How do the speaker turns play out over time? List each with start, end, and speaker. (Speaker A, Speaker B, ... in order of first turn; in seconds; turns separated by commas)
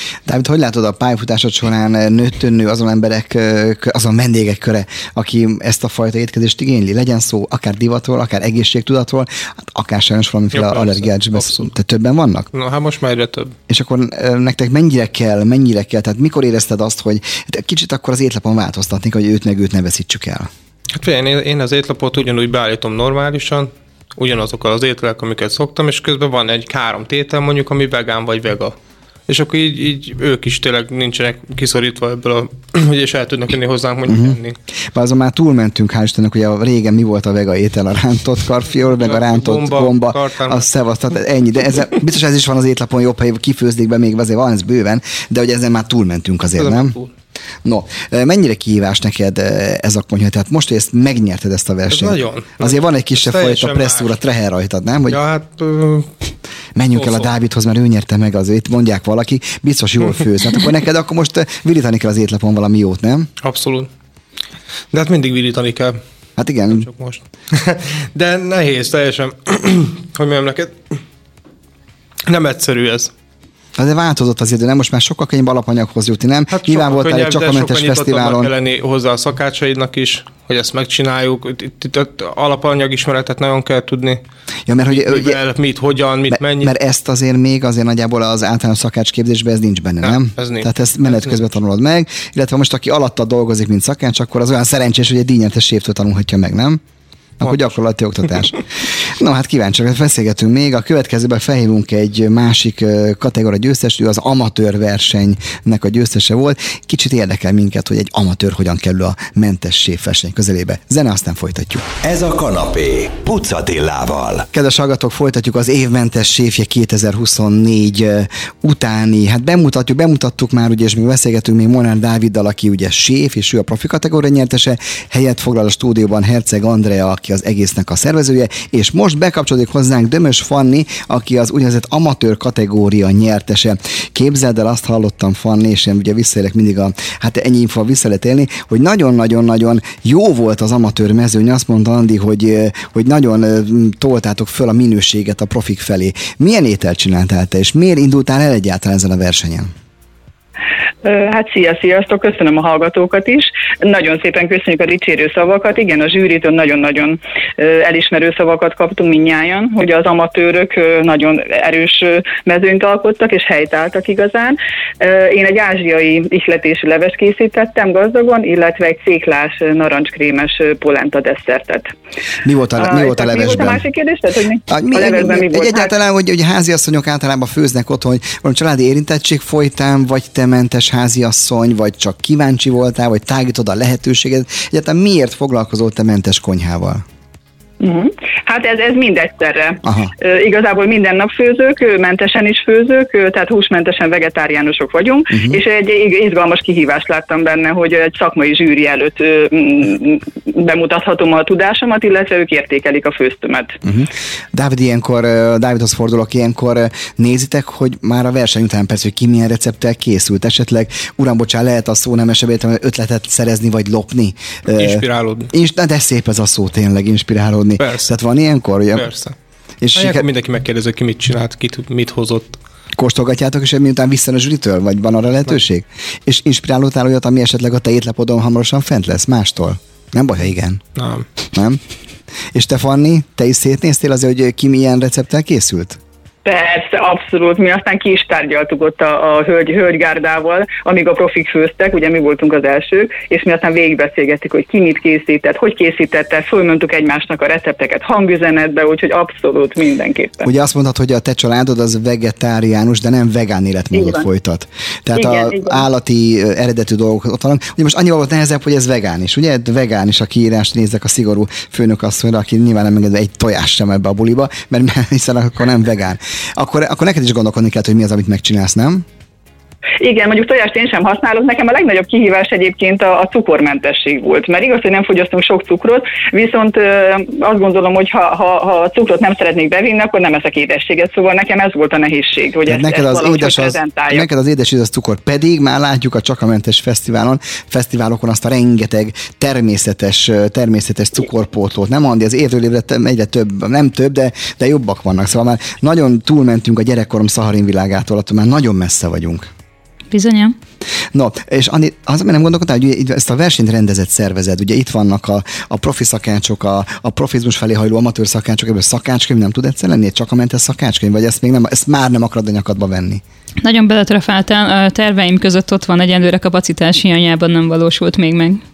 Speaker A: 0.3-12.5, Speaker B: 10.5-11.7, Speaker B: 12.5-13.5, Speaker A: 13.7-20.5, Speaker B: 20.9-28.8, Speaker B: 29.3-34.5, Speaker A: 34.1-34.4, Speaker A: 34.9-47.0, Speaker B: 39.0-40.8, Speaker B: 46.6-47.1, Speaker A: 47.6-55.2, Speaker B: 51.9-54.1, Speaker B: 55.1-56.1, Speaker A: 56.8-63.3, Speaker B: 56.9-57.3, Speaker B: 63.4-63.9, Speaker B: 64.9-66.0, Speaker A: 66.4-66.8, Speaker B: 66.7-70.9, Speaker B: 72.3-73.1, Speaker A: 73.8-78.5, Speaker B: 76.5-84.2, Speaker A: 84.7-85.4, Speaker B: 84.9-86.7, Speaker A: 86.3-96.8, Speaker B: 90.0-91.4, Speaker A: 97.4-111.8, Speaker C: 112.0-114.5, Speaker A: 114.5-149.7, Speaker D: 151.0-171.9, Speaker A: 172.4-173.8, Speaker D: 172.8-175.9, Speaker A: 174.7-187.0, Speaker D: 187.8-203.7, Speaker A: 189.8-190.1, Speaker A: 195.3-195.6, Speaker A: 203.8-219.1, Speaker B: 214.7-215.5, Speaker B: 217.8-218.1, Speaker B: 218.9-219.3, Speaker A: 219.8-220.2, Speaker B: 219.9-222.6, Speaker A: 223.0-230.8, Speaker B: 230.9-231.2, Speaker A: 231.5-231.8, Speaker A: 232.5-236.0, Speaker D: 236.4-250.5, Speaker A: 250.4-269.0, Speaker D: 253.9-254.2, Speaker D: 255.2-255.8, Speaker D: 270.0-284.2, Speaker A: 282.7-299.5, Speaker E: 300.1-300.5, Speaker A: 301.1-313.2, Speaker E: 313.6-318.6